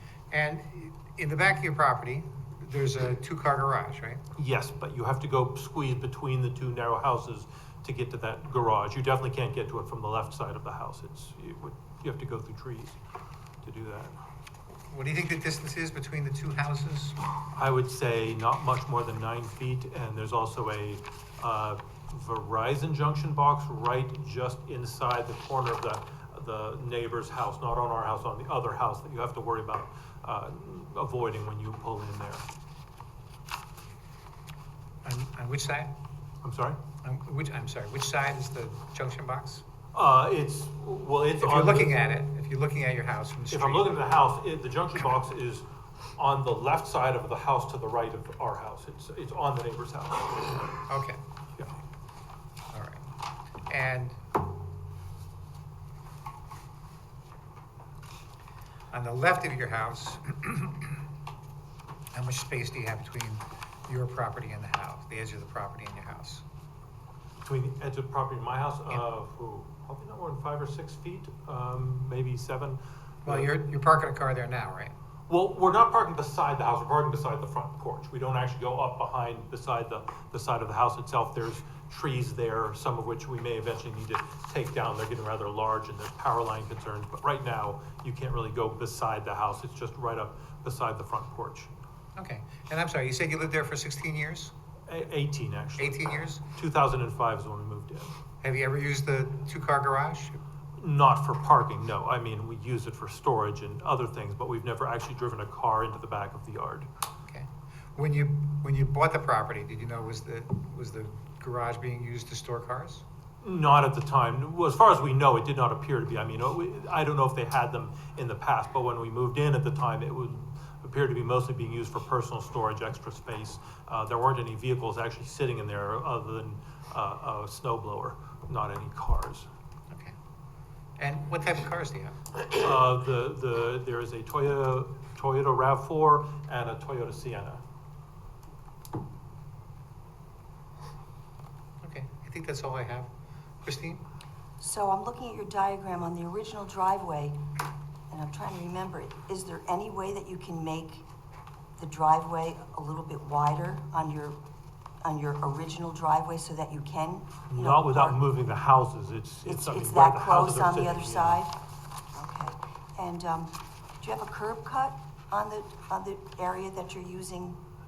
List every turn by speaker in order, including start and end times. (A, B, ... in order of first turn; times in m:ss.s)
0:00.3-0:04.2 A
0:04.4-0:13.0 B
0:13.6-0:14.2 B
0:14.9-0:17.2 A
0:17.5-0:32.4 B
0:35.0-0:35.9 A
0:36.4-0:36.8 B
0:37.0-0:39.6 A
0:39.9-0:42.0 B
0:41.4-0:44.0 A
0:43.5-0:50.6 B
0:50.9-0:51.2 A
0:52.7-0:53.0 A
0:53.7-0:54.2 A
0:58.9-1:00.9 A
1:02.1-1:06.4 A
1:07.4-1:13.5 B
1:13.2-1:14.9 A
1:15.3-1:31.8 B
1:32.2-1:34.5 A
1:34.9-1:38.2 B
1:35.8-1:36.4 A
1:38.4-1:40.4 A
1:40.8-1:46.9 B
1:47.2-1:53.0 A
1:53.4-2:09.5 B
2:11.0-2:12.2 A
2:12.5-2:17.6 B
2:21.8-2:23.1 A
2:23.6-2:24.0 A
2:24.6-2:27.4 C
2:28.1-2:31.1 C
2:31.8-2:34.4 C
2:35.0-2:38.2 C
2:37.5-2:41.4 B
2:39.4-2:41.6 C
2:42.1-2:47.6 C